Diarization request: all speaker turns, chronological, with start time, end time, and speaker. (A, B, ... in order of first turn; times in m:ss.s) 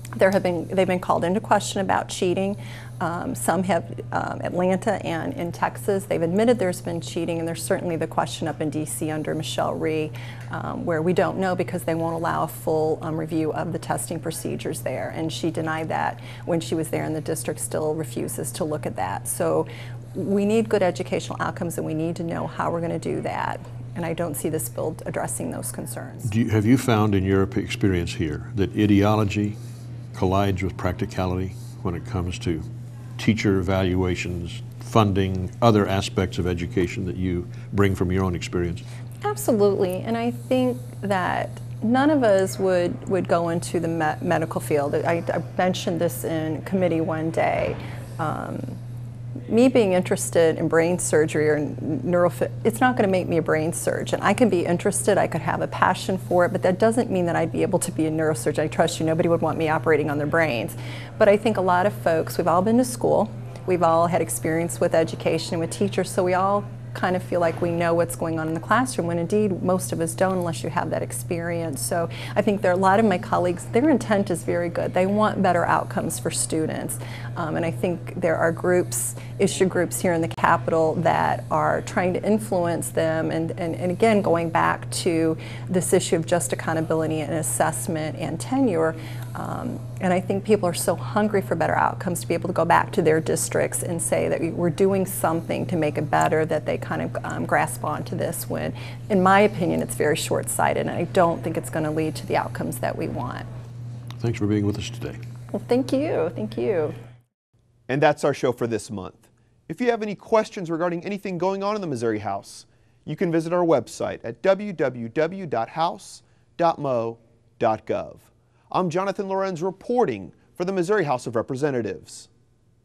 0:00.2-0:26.3 A
0:26.2-0:29.6 B
0:30.1-0:38.8 B
0:39.2-0:48.8 A
0:49.5-1:43.5 A
1:44.2-1:45.2 B
1:45.5-1:47.0 A
1:47.9-2:02.3 C